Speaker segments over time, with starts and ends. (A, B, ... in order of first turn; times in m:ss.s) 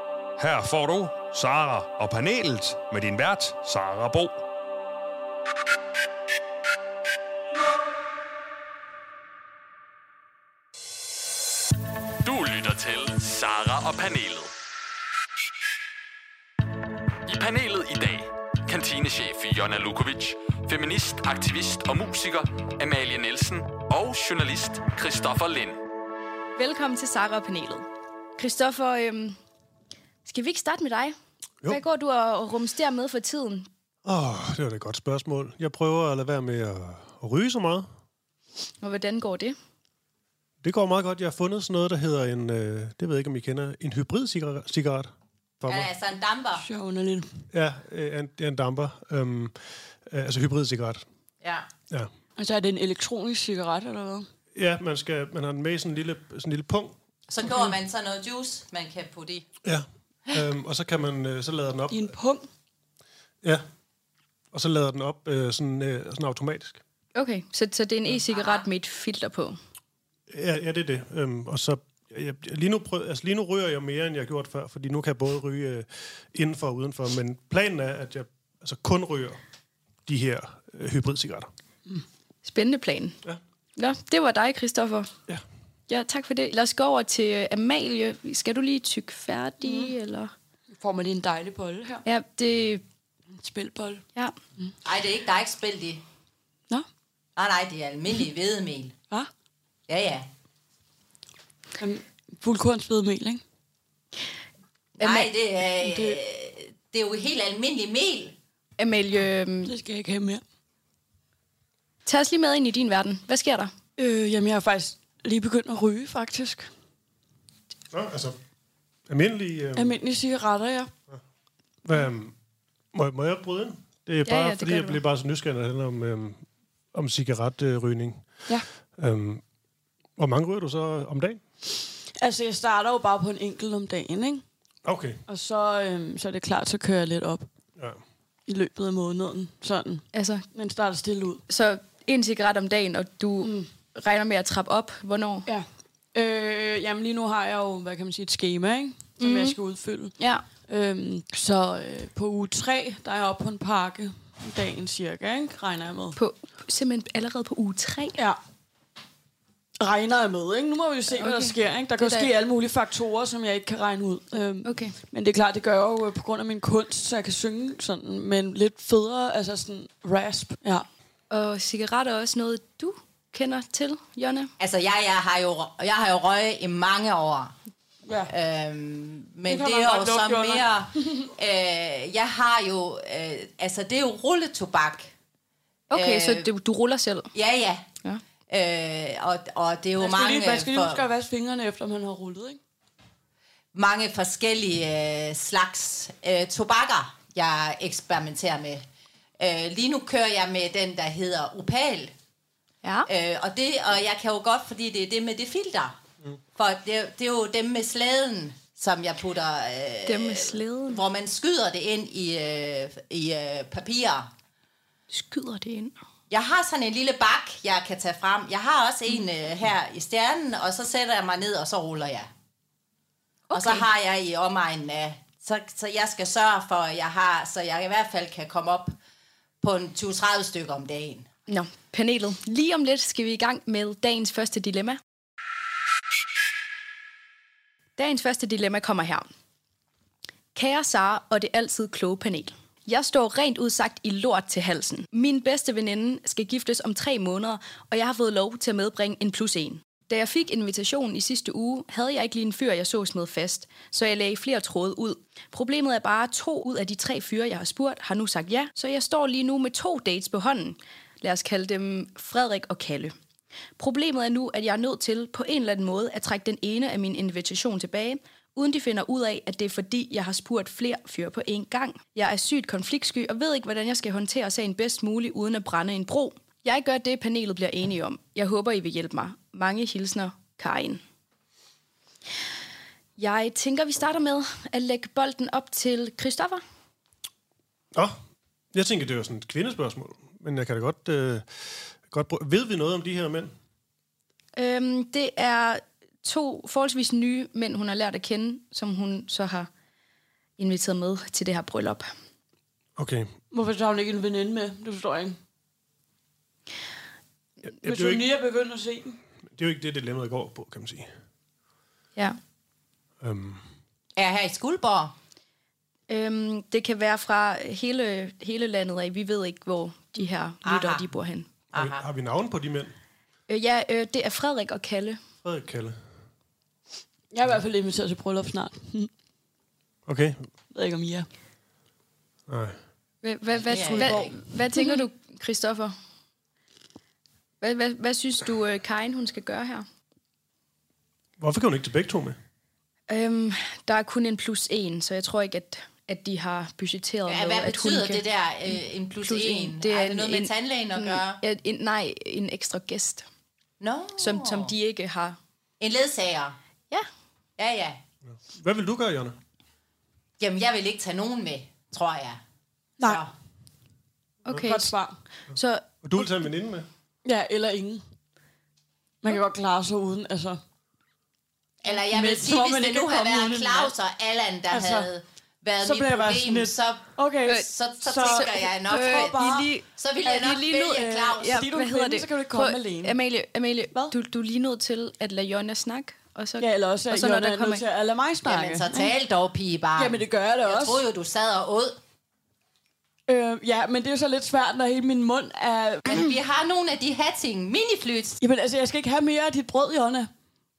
0:00.4-0:04.4 A
0:12.2-0:14.5 B
0:17.2-0:25.8 B
0:26.6-0:27.8 C
0:28.4-0:29.4 C
0:30.2-0:33.7 C
0:34.0-0:37.9 D
0:38.8-0:39.6 C
0:40.6-0:45.9 D
0:45.6-0:46.6 E
0:46.6-0:47.4 F
0:47.5-0:51.0 D
0:51.4-0:51.7 E
0:52.4-0:54.3 F
0:54.5-0:56.9 D
0:57.3-0:59.5 E
0:59.6-1:02.1 D
1:01.9-1:02.5 F
1:04.5-1:06.8 D
1:07.1-1:09.6 C
1:08.3-1:08.6 E
1:10.3-1:19.4 D
1:20.0-1:21.5 D
1:22.4-1:23.2 C
1:23.8-1:25.1 C
1:25.9-1:30.3 C
1:29.6-1:29.9 F
1:30.8-1:32.0 F
1:32.0-1:32.8 C
1:33.3-1:34.0 F
1:34.8-1:36.0 E
1:37.4-1:38.9 E
1:39.9-1:40.3 E
1:41.8-1:43.4 F
1:45.0-1:45.3 C
1:45.0-1:48.3 E
1:45.8-1:46.2 F
1:48.8-1:49.7 C
1:49.7-1:50.4 F
1:52.0-1:53.7 C
1:54.0-1:56.7 F
1:57.9-1:58.4 D
1:59.1-1:59.9 D
1:59.8-2:00.9 F
2:01.8-2:02.3 D
2:02.9-2:08.2 D
2:04.2-2:05.0 C
2:09.0-2:09.4 D
2:10.2-2:11.4 D
2:12.2-2:14.4 F
2:14.8-2:15.2 D
2:15.3-2:17.4 F
2:18.5-2:21.4 F
2:20.1-2:20.4 C
2:21.5-2:25.5 C
2:25.5-2:36.2 F
2:29.2-2:29.6 C
2:30.2-2:30.4 C
2:36.2-2:38.2 C
2:39.8-2:50.8 F
2:41.2-2:42.3 C
2:44.6-2:44.9 C
2:51.3-2:54.5 C
2:54.6-2:57.6 E
2:58.0-2:58.3 F
2:58.3-3:05.1 E
2:59.4-3:01.2 F
3:05.9-3:07.3 C
3:05.9-3:06.5 E
3:07.3-3:07.8 E
3:08.5-3:11.0 E
3:10.0-3:12.6 F
3:13.7-3:18.8 E
3:19.4-3:22.1 E
3:22.8-3:23.1 C
3:23.1-3:26.0 E
3:26.5-3:34.3 E
3:30.0-3:31.0 C
3:35.1-3:35.9 C
3:36.3-3:42.3 E
3:43.5-3:43.8 C
3:43.5-3:48.9 E
3:49.6-3:51.3 E
3:51.5-3:55.0 C
3:58.0-3:59.3 C
4:00.5-4:23.1 C
4:23.8-4:41.0 C
4:43.2-4:46.6 C
4:48.7-4:51.4 D
4:52.0-4:53.5 D
4:54.6-4:59.7 C
5:00.6-5:02.1 C
5:03.0-5:03.3 D
5:03.5-5:05.4 F
5:07.7-5:08.2 D
5:07.8-5:09.2 F
5:09.5-5:11.1 D
5:13.2-5:13.6 D
5:14.2-5:15.1 E
5:16.1-5:21.5 C
5:20.6-5:21.0 E
5:21.7-5:22.0 E
5:21.7-5:22.9 D
5:23.5-5:25.2 C
5:25.4-5:26.0 D
5:27.3-5:29.1 F
5:30.0-5:30.4 D
5:30.7-5:31.3 F
5:32.5-5:32.8 D
5:33.2-5:35.9 C
5:33.6-5:34.3 E
5:33.8-5:35.0 F
5:37.6-5:39.8 C
5:41.4-5:42.4 D
5:43.1-5:53.2 C
5:47.3-5:51.4 E
5:53.8-5:54.7 E
5:54.2-5:55.4 C
5:55.8-5:56.6 E
5:57.6-5:58.0 E
5:58.3-5:59.4 D
6:00.4-6:02.4 E
6:03.0-6:03.3 E
6:04.5-6:04.9 C
6:04.5-6:05.1 F
6:05.5-6:06.2 C
6:06.0-6:06.9 D
6:07.2-6:08.0 F
6:09.2-6:10.6 F
6:11.8-6:19.4 E
6:12.0-6:13.9 F
6:14.7-6:15.1 F
6:15.8-6:19.7 F
6:17.4-6:27.8 C
6:20.0-6:21.6 E
6:20.9-6:23.2 F
6:26.6-6:29.2 F
6:28.4-6:32.0 E
6:29.9-6:31.0 F
6:33.3-6:36.3 F
6:36.0-6:38.4 E
6:38.4-6:40.3 F